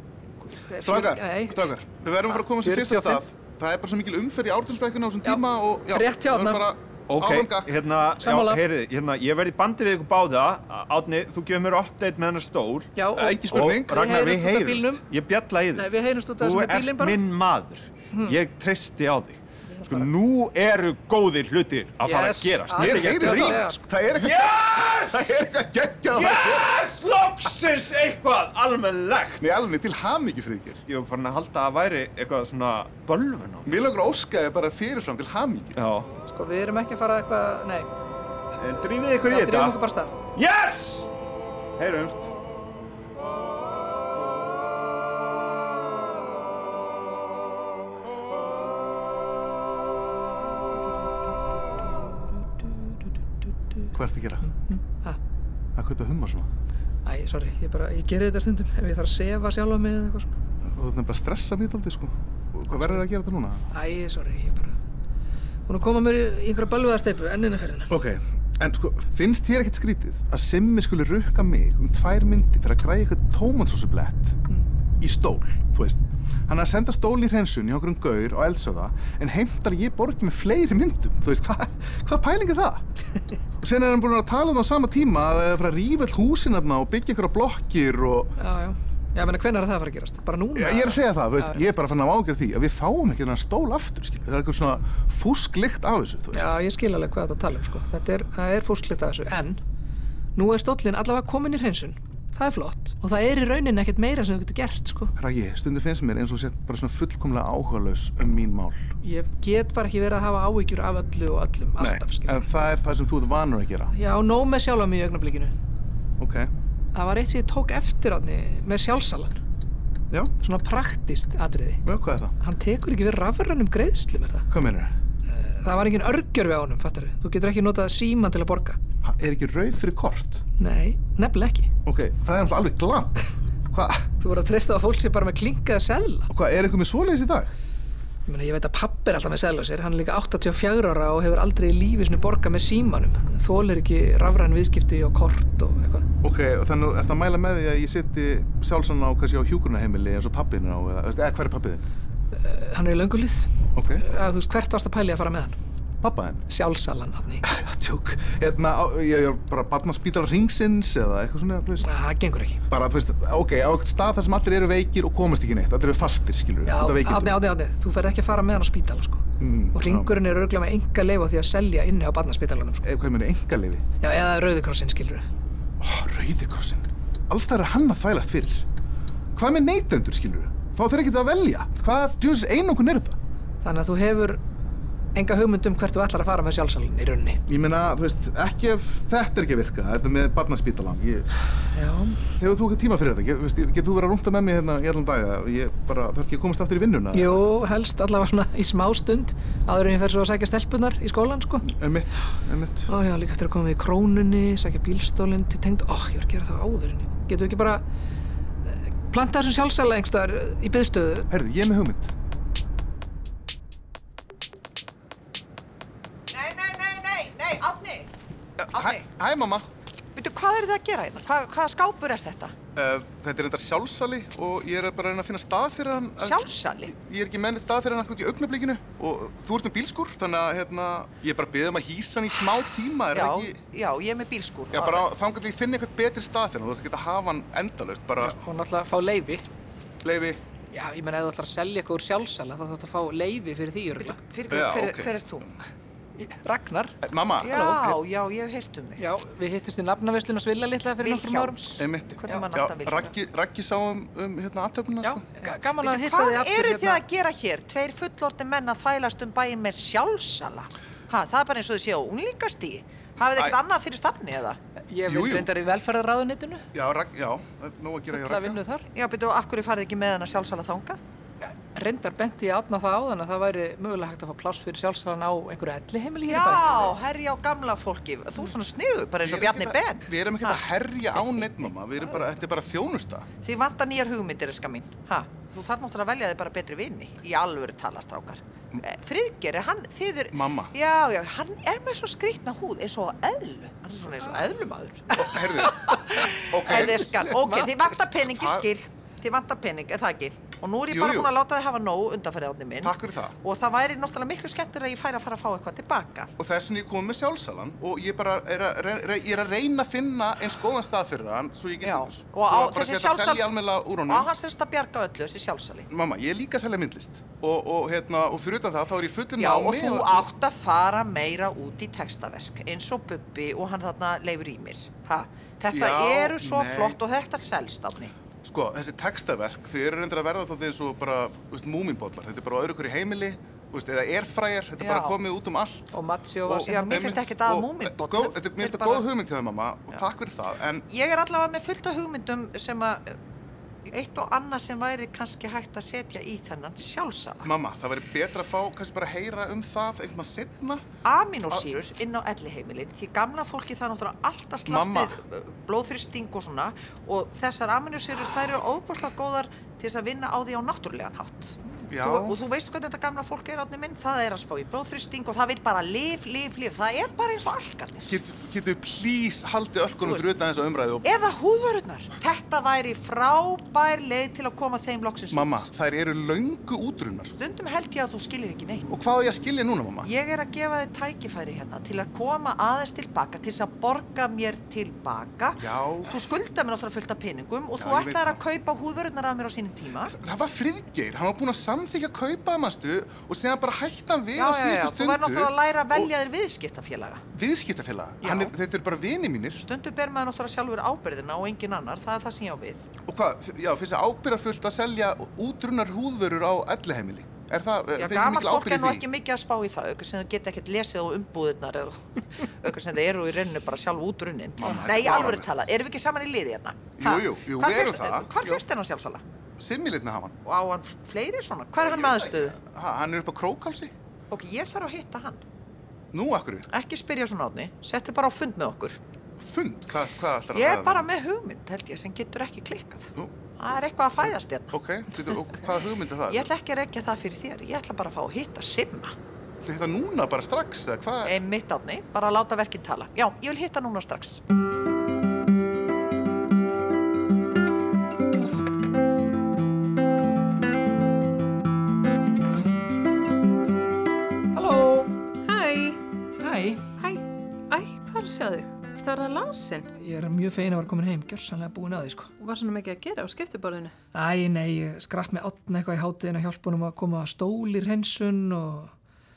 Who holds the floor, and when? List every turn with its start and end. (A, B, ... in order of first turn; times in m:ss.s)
0:00.4-0:01.7 A
0:00.8-0:07.8 B
0:02.3-0:03.2 A
0:05.2-0:06.7 A
0:07.1-0:12.9 C
0:08.2-0:08.6 A
0:13.0-0:15.0 A
0:13.2-0:14.2 B
0:13.5-0:25.5 C
0:15.8-0:17.2 A
0:18.1-0:18.4 A
0:19.7-0:20.1 A
0:22.0-0:23.8 A
0:22.8-0:26.7 B
0:26.1-0:29.4 C
0:29.4-0:30.8 B
0:30.9-0:33.8 C
0:33.6-0:35.8 B
0:35.8-0:36.1 C
0:36.3-0:37.9 A
0:38.6-0:39.8 C
0:39.3-0:40.2 A
0:40.4-0:41.1 C
0:41.8-0:42.3 C
0:53.9-0:54.5 B
0:54.4-0:55.2 A
0:55.8-0:56.5 B
0:57.0-1:00.4 A
1:00.6-1:03.7 B
1:02.8-1:03.0 A
1:03.7-1:04.8 A
1:05.7-1:07.9 A
1:07.9-1:14.4 B
1:15.0-1:22.8 B
1:23.6-1:28.3 B
1:28.4-1:31.9 A
1:30.6-1:36.5 B
1:36.3-1:39.6 A
1:40.4-1:45.1 A
1:45.2-1:48.9 B
1:49.0-1:52.5 A
1:51.8-1:53.9 B
1:53.9-1:55.5 A
1:56.2-1:56.5 B
1:56.9-1:59.4 A
2:00.4-2:01.8 A
2:01.8-2:02.3 B
2:02.4-2:04.5 A
2:04.5-2:04.9 B
2:05.3-2:08.8 A
2:09.0-2:10.4 B
2:10.6-2:11.7 A
2:11.9-2:14.1 B
2:14.2-2:16.3 A
2:16.3-2:17.5 B
2:18.3-2:26.1 A
2:26.2-2:31.8 B
2:32.3-2:35.6 A
2:33.8-2:34.0 B
2:36.0-2:36.4 B
2:36.5-2:37.4 A
2:37.4-2:42.0 B
2:41.8-2:42.6 A
2:42.7-2:47.4 B
2:46.7-2:52.9 A
2:49.4-2:50.2 B
2:52.8-2:53.8 B
2:54.0-2:55.2 A
2:55.8-2:58.6 B
2:59.4-3:03.2 B
3:03.6-3:04.4 A
3:05.2-3:07.4 A
3:07.5-3:11.3 B
3:11.7-3:12.2 A
3:12.4-3:17.4 B
3:17.1-3:21.7 A
3:21.6-3:22.9 B
3:22.9-3:27.8 A
3:28.7-3:31.3 A
3:31.3-3:32.1 B
3:36.3-3:38.1 D
3:38.6-3:39.7 B
3:38.7-3:39.0 D
3:40.2-3:42.5 D
3:42.8-3:53.6 B
3:46.2-3:46.9 D
3:53.1-3:55.1 D
3:54.7-3:58.4 B
3:58.2-3:59.4 A
4:00.0-4:00.4 B
4:00.7-4:04.2 A
4:04.0-4:05.5 D
4:04.5-4:05.5 B
4:06.2-4:07.8 A
4:07.0-4:08.0 B
4:07.4-4:09.0 D
4:09.0-4:11.8 A
4:11.0-4:13.1 D
4:11.8-4:15.2 B
4:15.0-4:17.0 A
4:15.8-4:24.6 D
4:24.9-4:26.7 A
4:25.1-4:25.5 B
4:26.7-4:28.6 B
4:28.1-4:28.9 A
4:28.9-4:31.0 D
4:31.4-4:36.9 A
4:36.3-4:40.6 D
4:39.2-4:43.3 B
4:41.2-4:41.5 D
4:43.4-5:06.3 D
4:50.3-4:50.7 B
4:55.2-4:56.0 B
4:55.6-4:56.3 A
4:56.5-4:57.1 B
4:57.0-4:57.7 A
4:58.2-4:58.7 B
5:00.9-5:01.3 B
5:02.8-5:03.4 B
5:06.4-5:14.3 B
5:11.8-5:13.5 D
5:14.1-5:15.9 D
5:15.9-5:20.3 B
5:19.4-5:28.1 D
5:25.7-5:27.0 B
5:28.4-5:40.8 B
5:34.8-5:35.2 D
5:35.9-5:37.2 A
5:36.7-5:39.1 D
5:40.9-5:43.2 D
5:43.9-5:47.5 D
5:47.4-5:50.8 B
5:51.0-6:08.2 D
5:54.7-5:55.2 B
6:01.9-6:02.4 B
6:08.1-6:11.1 B
6:11.0-6:15.7 D
6:15.3-6:17.4 B
6:17.4-6:18.9 D
6:18.9-6:20.1 B
6:20.0-6:30.1 D
6:25.6-6:26.2 B
6:27.8-6:28.4 B
6:30.0-6:36.1 B
6:34.4-6:37.2 D
6:37.3-6:39.6 B
6:38.2-6:38.5 D
6:39.6-6:42.9 D
6:43.1-6:49.0 B
6:48.0-6:59.2 D
6:54.6-6:55.6 B
6:57.0-6:58.6 B
6:59.6-7:00.4 B
7:00.4-7:02.6 D
7:01.8-7:03.9 B
7:04.3-7:05.4 D
7:06.1-7:06.7 B
7:06.7-7:09.0 D
7:09.4-7:11.1 B
7:10.5-7:15.3 D
7:14.7-7:16.5 B
7:16.3-7:19.1 D
7:19.6-7:21.4 B
7:21.2-7:24.4 D
7:34.5-7:35.1 A
7:35.4-7:36.0 E
7:36.4-7:36.9 A
7:37.0-7:39.9 E
7:40.0-7:42.3 A
7:42.4-7:44.0 E
7:44.1-7:48.9 A